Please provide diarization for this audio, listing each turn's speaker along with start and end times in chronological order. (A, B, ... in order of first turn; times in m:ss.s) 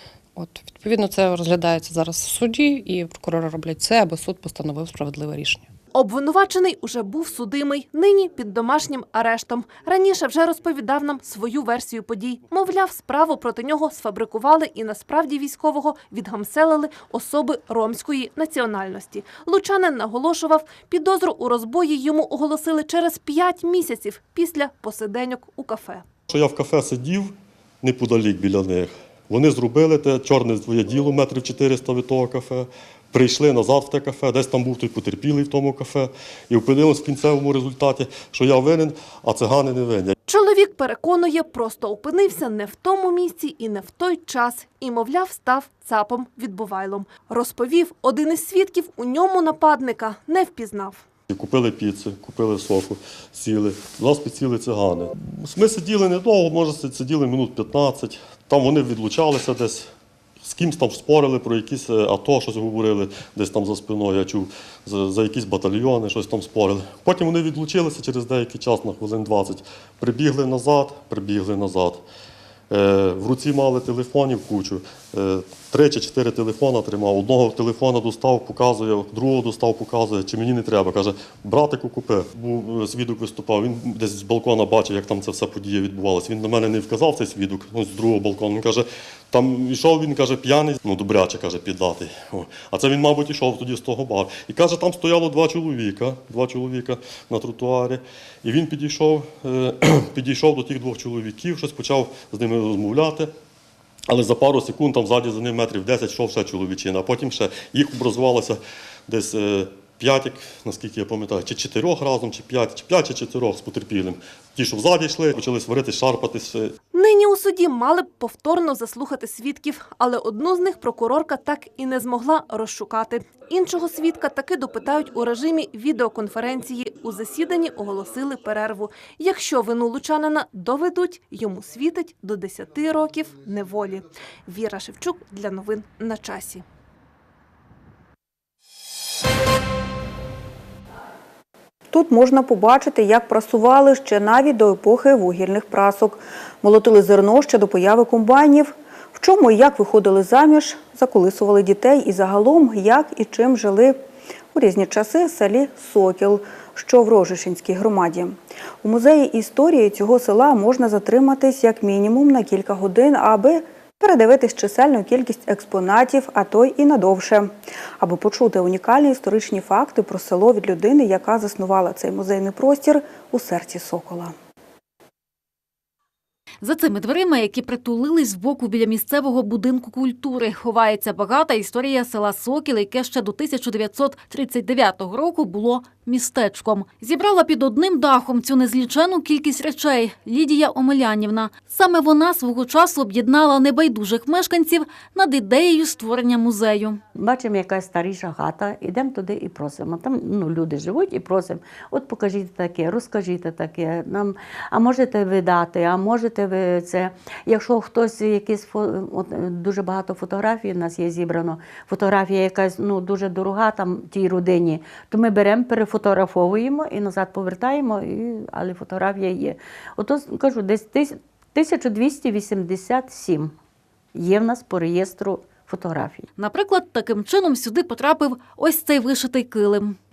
0:00.3-0:05.7 A
0:05.9-0:26.0 B
0:26.3-0:40.1 C
0:40.2-0:51.0 B
0:51.3-0:59.9 C
1:00.4-1:12.0 C
1:12.7-1:43.3 C
1:44.1-1:56.7 C
1:56.9-2:16.6 B
2:21.9-2:34.0 D
2:34.5-2:54.3 D
2:56.6-3:17.0 E
3:17.1-3:43.5 F
3:44.1-3:46.3 F
3:46.4-3:50.0 E